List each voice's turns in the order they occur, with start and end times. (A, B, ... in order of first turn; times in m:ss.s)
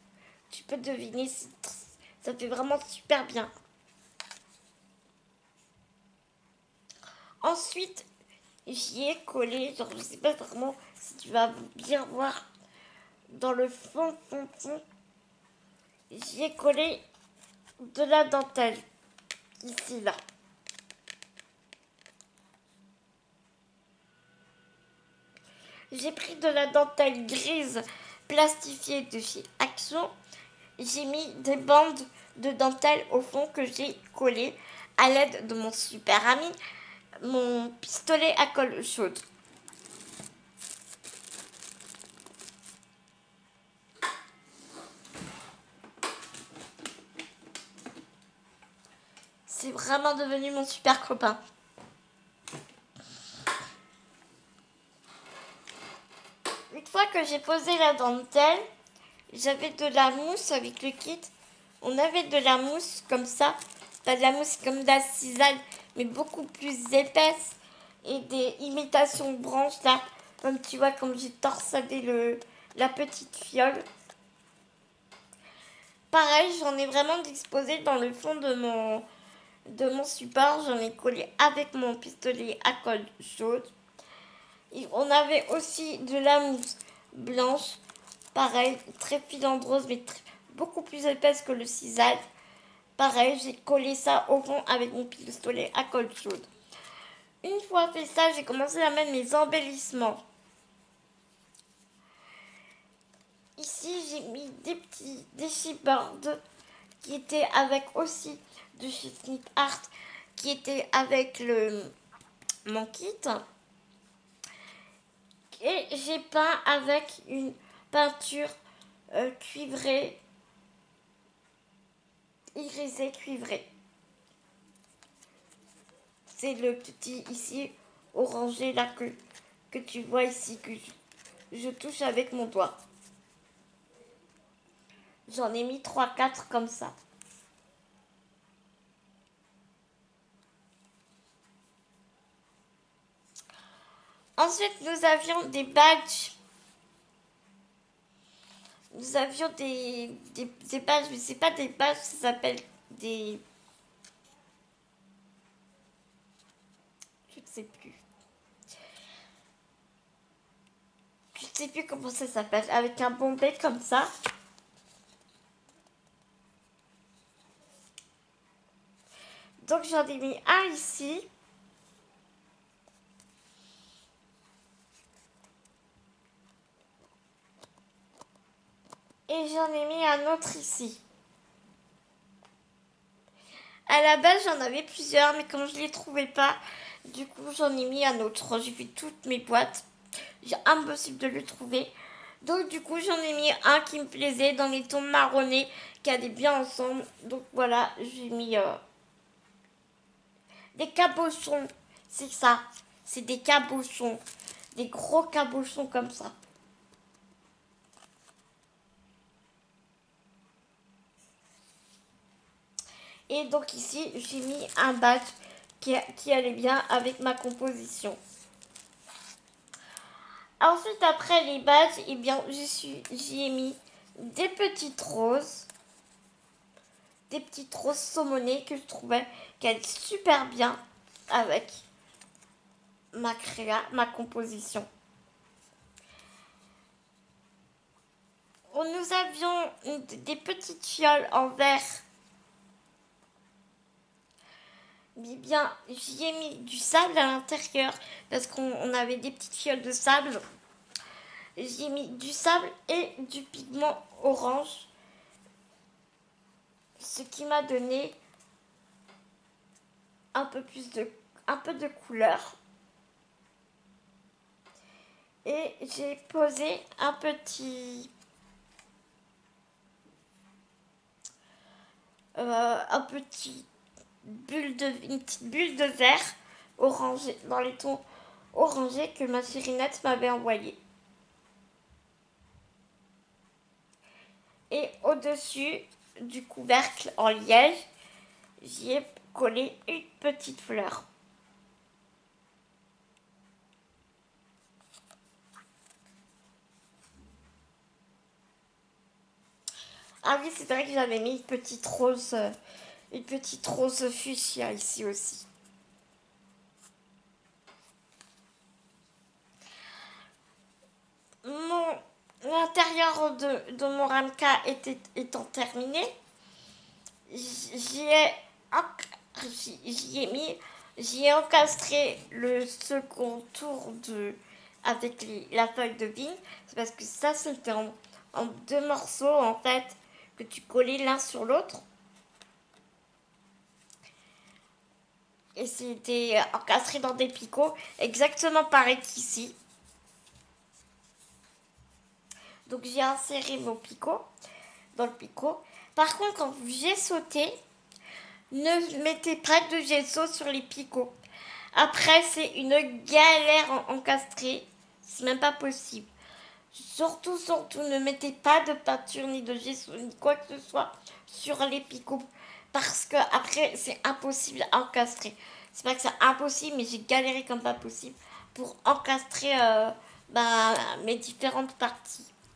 0:00.5-0:03.5 A
0:07.4-0:08.1 A
0:08.6-0:12.4 A
0:13.3-0:14.8 A
0:16.1-0:17.0 A
0:17.8-0:18.8 A
0:19.6-0:20.2 A
0:25.9-0:30.1 A
0:30.8-0:36.6 A
0:37.2-0:39.2 A
0:49.5-0:51.4 A
0:56.7-0:58.6 A
0:59.3-1:13.8 A
1:16.1-1:19.0 A
1:19.7-1:23.7 A
1:24.7-1:27.8 A
1:28.3-1:32.2 A
1:33.0-1:36.5 A
1:37.4-1:40.2 A
1:43.6-1:46.4 A
1:47.0-1:51.9 A
1:52.6-1:53.4 A
1:55.6-1:58.5 A
1:59.1-2:00.2 A
2:02.6-2:03.7 A
2:06.3-2:09.2 A
2:09.7-2:10.9 A
2:11.5-2:12.8 A
2:15.3-2:16.9 A
2:24.4-2:26.4 A
2:28.9-2:33.4 A
2:37.3-2:38.0 A
2:41.3-2:44.1 A
2:49.6-2:51.2 A
2:59.3-3:01.0 A
3:03.9-3:09.8 A
3:10.4-3:18.8 A
3:20.8-3:24.2 A
3:24.7-3:26.3 A
3:33.3-3:38.2 A
3:40.6-3:45.7 A
3:47.3-3:51.8 A
3:53.1-3:54.9 A
3:58.7-4:02.0 A
4:05.2-4:10.4 A
4:11.6-4:14.9 A
4:17.0-4:18.2 A
4:20.3-4:22.6 A
4:25.4-4:28.1 A
4:32.4-4:33.7 A
4:34.2-4:38.0 A
4:38.5-4:40.8 A
4:44.7-4:47.8 A
4:48.6-4:51.0 A
5:00.2-5:02.5 A
5:03.1-5:05.4 A
5:11.4-5:16.1 A
5:17.3-5:31.8 A
5:35.6-5:39.5 A
5:42.6-5:44.3 A
5:44.9-5:47.5 A
5:48.5-5:51.1 A
5:51.7-5:56.1 A
5:56.7-6:12.3 A